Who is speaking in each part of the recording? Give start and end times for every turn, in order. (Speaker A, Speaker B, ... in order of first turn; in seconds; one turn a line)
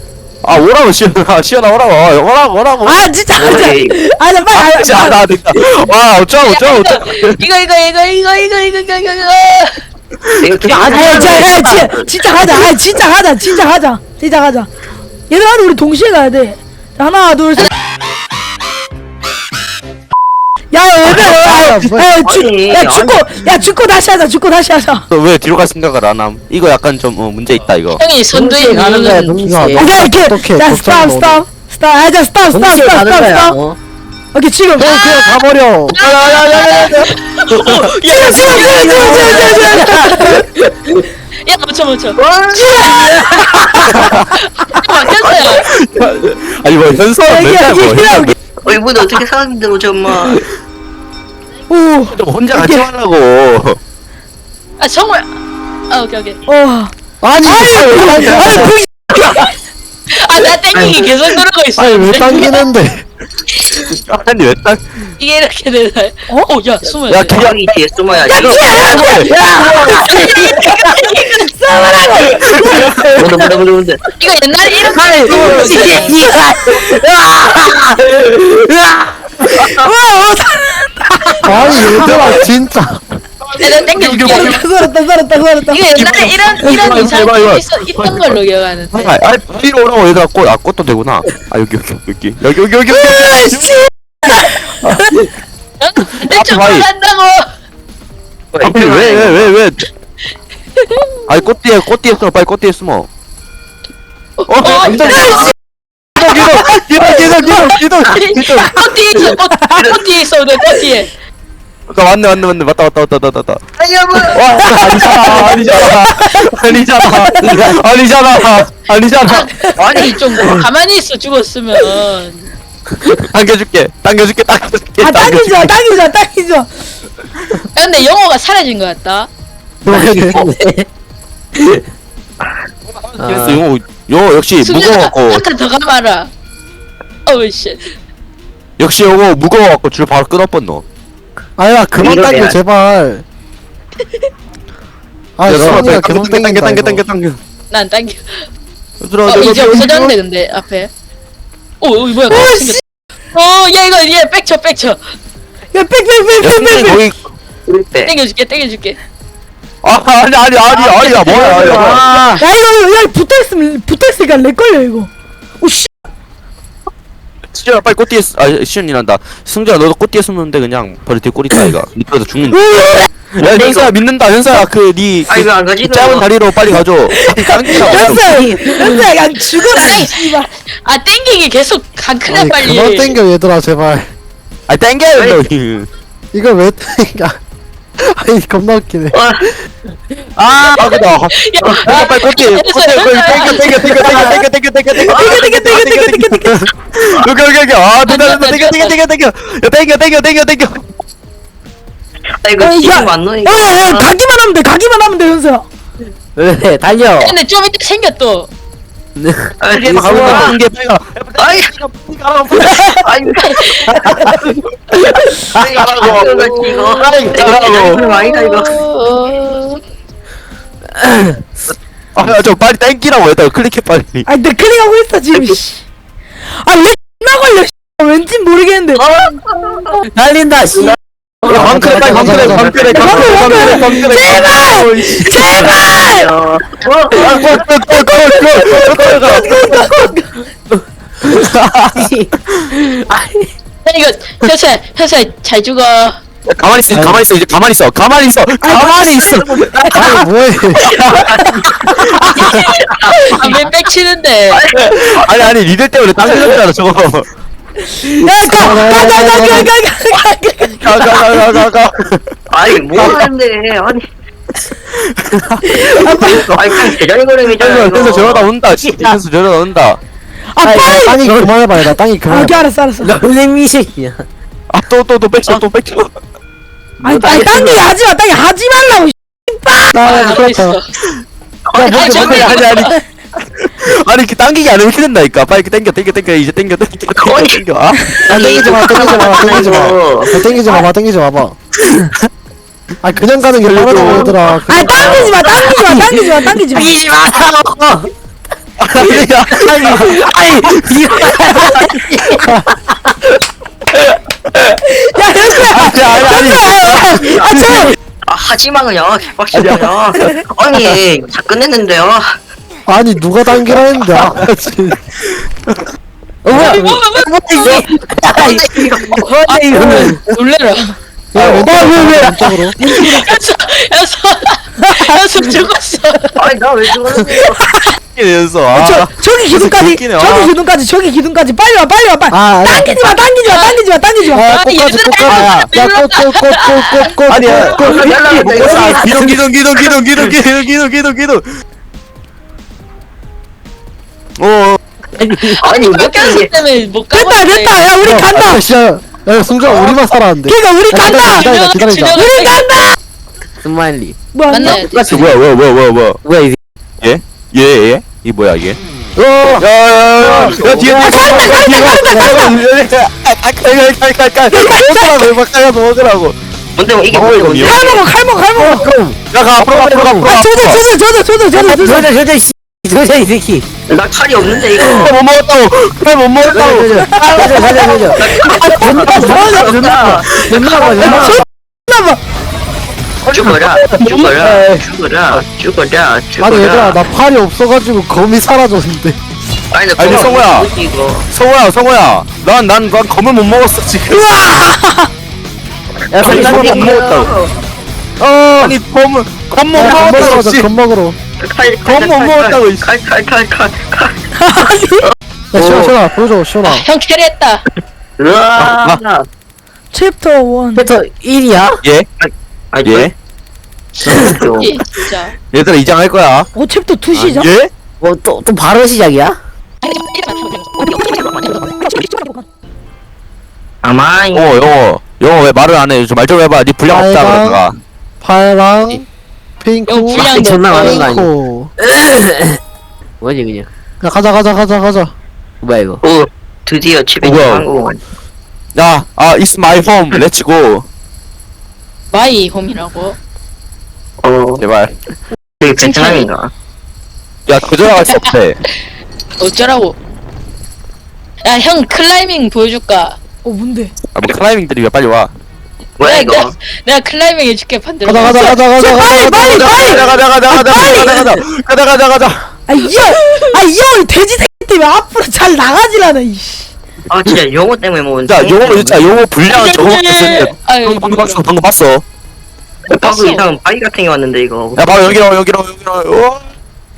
Speaker A: 0.4-3.1
Speaker B: 2.8-5.2
Speaker C: 3.4-4.0
Speaker A: 4.5-7.4
Speaker D: 6.4-9.8
Speaker C: 10.4-12.5
Speaker B: 10.7-14.7
Speaker E: 10.7-11.8
Speaker B: 15.3-17.7
Speaker B: 20.7-25.1
Speaker F: 21.1-22.1
Speaker C: 22.2-23.2
Speaker A: 25.1-28.0
Speaker D: 27.9-29.2
Speaker E: 28.2-30.0
Speaker F: 29.3-31.4
Speaker B: 29.7-33.6
Speaker E: 32.5-33.8
Speaker B: 34.3-35.2
Speaker F: 34.8-35.9
Speaker D: 35.9-40.1
Speaker A: 35.9-37.9
Speaker B: 38.1-40.5
Speaker E: 38.6-40.4
Speaker D: 41.4-43.5
Speaker E: 42.5-44.0
Speaker A: 43.9-44.3
Speaker D: 44.3-45.6
Speaker C: 45.0-45.6
Speaker A: 45.6-48.3
Speaker B: 47.3-48.3
Speaker C: 48.6-50.4
Speaker B: 51.7-52.2
Speaker A: 52.1-53.8
Speaker F: 52.5-52.9
Speaker D: 54.8-55.3
Speaker D: 55.9-56.4
Speaker B: 56.5-56.9
Speaker F: 57.2-58.8
Speaker B: 57.4-59.5
Speaker A: 57.7-59.5
Speaker D: 60.1-62.7
Speaker C: 60.7-61.4
Speaker F: 61.8-63.0
Speaker D: 63.5-63.9
Speaker A: 63.9-64.8
Speaker D: 65.2-67.4
Speaker A: 67.1-67.6
Speaker C: 67.3-69.0
Speaker B: 68.2-70.1
Speaker A: 68.2-69.3
Speaker E: 68.9-71.0
Speaker D: 69.9-71.2
Speaker B: 71.2-73.1
Speaker E: 72.9-73.6
Speaker C: 73.2-74.0
Speaker D: 74.2-76.2
Speaker E: 74.8-79.8
Speaker B: 75.3-75.7
Speaker B: 79.4-82.4
Speaker F: 81.4-83.0
Speaker E: 81.8-82.1
Speaker D: 83.6-84.5
Speaker A: 83.8-84.8
Speaker B: 84.2-85.8
Speaker D: 85.7-89.2
Speaker A: 85.9-88.3
Speaker A: 88.9-95.2
Speaker B: 92.9-95.1
Speaker D: 95.8-97.5
Speaker A: 96.1-96.9
Speaker C: 98.5-99.5
Speaker A: 98.6-99.8
Speaker D: 100.8-101.2
Speaker A: 101.3-103.1
Speaker D: 104.4-105.5
Speaker A: 104.5-105.5
Speaker A: 106.2-109.3
Speaker D: 106.2-111.1
Speaker B: 109.3-109.9
Speaker C: 109.8-110.0
Speaker A: 111.9-113.6
Speaker C: 113.8-115.5
Speaker A: 114.3-120.2
Speaker B: 114.4-117.6
Speaker D: 119.2-122.5
Speaker B: 119.6-120.2
Speaker C: 119.8-120.6
Speaker E: 120.4-120.7
Speaker A: 123.2-125.8
Speaker B: 125.0-126.7
Speaker D: 127.8-129.3
Speaker F: 129.8-130.5
Speaker E: 129.8-130.9
Speaker E: 131.5-131.8
Speaker A: 132.9-135.4
Speaker E: 133.2-133.6
Speaker D: 134.6-136.3
Speaker D: 137.2-137.9
Speaker A: 138.8-140.8
Speaker F: 141.6-143.2
Speaker C: 142.0-142.6
Speaker F: 145.4-147.0
Speaker A: 145.5-147.4
Speaker D: 147.7-148.5
Speaker A: 149.0-150.1
Speaker D: 149.2-150.9
Speaker D: 151.8-155.0
Speaker B: 152.3-152.8
Speaker B: 155.7-157.1
Speaker A: 156.4-157.2
Speaker C: 157.7-158.1
Speaker D: 158.0-159.0
Speaker A: 159.8-162.3
Speaker E: 160.7-162.4
Speaker C: 161.1-162.3
Speaker B: 162.4-165.9
Speaker A: 167.5-172.8
Speaker B: 172.5-173.1
Speaker A: 173.3-178.4
Speaker C: 173.4-173.9
Speaker C: 175.3-176.3
Speaker B: 177.1-180.5
Speaker E: 177.8-179.1
Speaker D: 179.6-183.2
Speaker F: 182.2-184.1
Speaker A: 184.7-185.9
Speaker C: 185.1-185.4
Speaker F: 186.3-187.4
Speaker F: 188.0-189.2
Speaker C: 189.1-189.5
Speaker A: 190.4-200.9
Speaker D: 190.6-194.2
Speaker C: 194.0-194.3
Speaker B: 195.0-196.7
Speaker C: 195.1-195.5
Speaker D: 198.0-199.0
Speaker C: 202.4-204.1
Speaker B: 202.6-205.7
Speaker E: 206.4-207.4
Speaker D: 207.2-208.5
Speaker E: 209.2-210.5
Speaker C: 209.6-210.6
Speaker A: 209.8-213.1
Speaker C: 211.4-211.7
Speaker C: 212.6-214.0
Speaker D: 213.4-213.8
Speaker A: 213.9-218.1
Speaker C: 215.5-218.8
Speaker D: 217.9-219.8
Speaker E: 220.9-221.4
Speaker A: 222.2-224.3
Speaker B: 224.2-225.8
Speaker B: 226.6-229.1
Speaker C: 229.0-230.0
Speaker E: 230.0-231.0
Speaker C: 230.9-234.0
Speaker A: 231.5-235.7
Speaker F: 231.5-232.9
Speaker B: 232.9-236.3
Speaker C: 235.6-237.4
Speaker A: 237.2-239.8
Speaker B: 238.3-240.4
Speaker E: 240.7-241.4
Speaker A: 241.2-242.7
Speaker E: 241.9-243.5
Speaker D: 243.8-246.2
Speaker A: 246.5-252.6
Speaker F: 246.9-247.2
Speaker B: 248.6-250.2
Speaker F: 249.9-250.9
Speaker B: 251.4-252.1
Speaker D: 252.4-254.6
Speaker E: 253.4-253.7
Speaker A: 254.5-257.3
Speaker C: 256.2-256.5
Speaker B: 257.9-261.6
Speaker A: 258.2-258.7
Speaker F: 258.5-259.7
Speaker A: 260.8-262.2
Speaker C: 262.5-264.1
Speaker A: 262.9-263.3
Speaker A: 264.9-266.5
Speaker B: 265.7-266.5
Speaker C: 266.5-268.5
Speaker A: 267.6-270.0
Speaker E: 268.8-269.2
Speaker B: 270.5-271.3
Speaker E: 270.6-271.5
Speaker F: 271.0-272.6
Speaker B: 271.9-273.1
Speaker E: 273.0-274.3
Speaker A: 274.7-276.1
Speaker E: 277.0-277.9
Speaker B: 277.0-280.0
Speaker F: 279.9-280.8
Speaker D: 280.0-280.9
Speaker C: 280.1-280.4
Speaker C: 281.6-282.7
Speaker F: 281.8-282.2
Speaker D: 281.8-283.0
Speaker A: 282.1-288.2
Speaker C: 287.2-287.6
Speaker C: 288.2-290.4
Speaker F: 288.2-291.6
Speaker E: 288.6-289.6
Speaker F: 293.0-295.4
Speaker A: 293.6-294.3
Speaker E: 294.0-294.3
Speaker B: 294.6-296.9
Speaker E: 295.0-298.1
Speaker A: 298.8-300.1
Speaker E: 299.0-303.1
Speaker A: 300.6-301.9
Speaker A: 303.9-305.0
Speaker B: 304.8-307.9
Speaker A: 305.5-307.9
Speaker C: 308.3-312.4
Speaker A: 309.5-309.9
Speaker F: 312.9-315.0
Speaker A: 314.1-314.4
Speaker A: 315.3-315.8
Speaker E: 316.4-320.4
Speaker D: 316.5-317.9
Speaker C: 318.3-319.2
Speaker D: 319.4-320.9
Speaker F: 321.3-322.8
Speaker A: 321.4-323.2
Speaker B: 321.6-323.3
Speaker D: 323.2-326.2
Speaker B: 324.8-325.1
Speaker C: 326.4-327.6
Speaker B: 327.3-327.9
Speaker A: 328.1-330.5
Speaker B: 328.7-334.5
Speaker F: 332.3-332.9
Speaker D: 333.5-337.8
Speaker A: 334.4-335.7
Speaker F: 335.3-337.8
Speaker A: 337.2-341.4
Speaker C: 337.7-339.3
Speaker E: 337.8-339.4
Speaker A: 344.4-345.5
Speaker E: 345.2-345.9
Speaker D: 345.5-347.9
Speaker C: 345.6-346.5
Speaker B: 347.1-348.6
Speaker F: 348.0-352.2
Speaker A: 348.3-348.6
Speaker A: 349.6-350.0
Speaker B: 350.5-351.5
Speaker A: 350.9-351.3
Speaker D: 351.0-352.9
Speaker B: 352.1-353.0
Speaker E: 353.6-355.3
Speaker B: 354.3-354.9
Speaker D: 354.5-355.2
Speaker A: 354.7-356.2
Speaker E: 356.2-356.6
Speaker A: 357.0-358.8
Speaker E: 359.2-359.6
Speaker A: 359.5-366.4
Speaker C: 360.3-360.9
Speaker F: 360.3-361.0
Speaker E: 360.3-361.3
Speaker B: 360.9-362.6
Speaker B: 364.5-365.3
Speaker C: 366.8-368.1
Speaker A: 367.1-367.9
Speaker B: 367.6-368.9
Speaker E: 368.5-370.3
Speaker A: 369.3-370.8
Speaker B: 370.2-372.1
Speaker E: 371.5-373.6
Speaker C: 373.9-375.1
Speaker E: 374.5-375.1
Speaker A: 374.9-377.2
Speaker E: 376.4-381.4
Speaker B: 377.0-379.7
Speaker C: 377.4-381.4
Speaker B: 381.0-382.2
Speaker A: 383.2-384.5
Speaker C: 383.3-387.0
Speaker E: 384.3-384.8
Speaker F: 386.4-389.2
Speaker C: 389.7-391.2
Speaker A: 390.0-390.7
Speaker A: 391.3-394.4
Speaker B: 394.1-395.1
Speaker A: 396.1-397.3
Speaker C: 396.1-397.6
Speaker E: 396.2-396.7
Speaker A: 398.2-400.7
Speaker F: 399.7-401.1
Speaker C: 399.9-400.2
Speaker C: 401.4-404.1
Speaker A: 401.8-402.9
Speaker B: 404.3-405.1
Speaker F: 405.5-406.9
Speaker C: 405.5-406.0
Speaker D: 406.6-407.6
Speaker C: 408.2-409.2
Speaker A: 408.6-409.0
Speaker B: 409.9-410.9
Speaker E: 410.8-411.8
Speaker C: 412.2-413.1
Speaker A: 412.8-413.1
Speaker C: 414.0-414.8
Speaker D: 414.1-415.4
Speaker E: 414.1-414.4
Speaker A: 415.4-416.5
Speaker B: 416.5-417.5
Speaker A: 417.3-417.7
Speaker E: 418.0-419.4
Speaker D: 419.8-421.7
Speaker B: 421.8-422.4
Speaker C: 423.8-424.6
Speaker A: 424.3-427.8
Speaker F: 426.9-427.6
Speaker F: 428.2-429.0
Speaker F: 429.6-431.7
Speaker D: 429.9-431.0
Speaker E: 430.1-432.6
Speaker E: 433.2-433.7
Speaker F: 434.0-435.1
Speaker E: 435.6-436.0
Speaker C: 436.0-438.0
Speaker A: 437.2-437.7
Speaker A: 438.8-440.9
Speaker D: 442.1-443.2
Speaker C: 444.2-444.6
Speaker A: 444.6-444.9
Speaker C: 445.6-446.5
Speaker D: 445.7-446.3
Speaker A: 447.5-448.6
Speaker D: 447.8-448.4
Speaker D: 449.4-450.0
Speaker D: 451.4-453.2
Speaker B: 453.4-453.9
Speaker A: 454.1-455.3
Speaker C: 456.0-456.5
Speaker D: 456.0-458.6
Speaker F: 458.0-459.6
Speaker B: 458.6-461.4
Speaker A: 459.1-462.5
Speaker B: 462.7-466.7
Speaker D: 462.9-463.5
Speaker C: 467.1-469.1
Speaker A: 468.2-472.0
Speaker D: 469.5-471.4
Speaker C: 472.9-475.2
Speaker D: 473.0-473.5
Speaker A: 474.8-476.5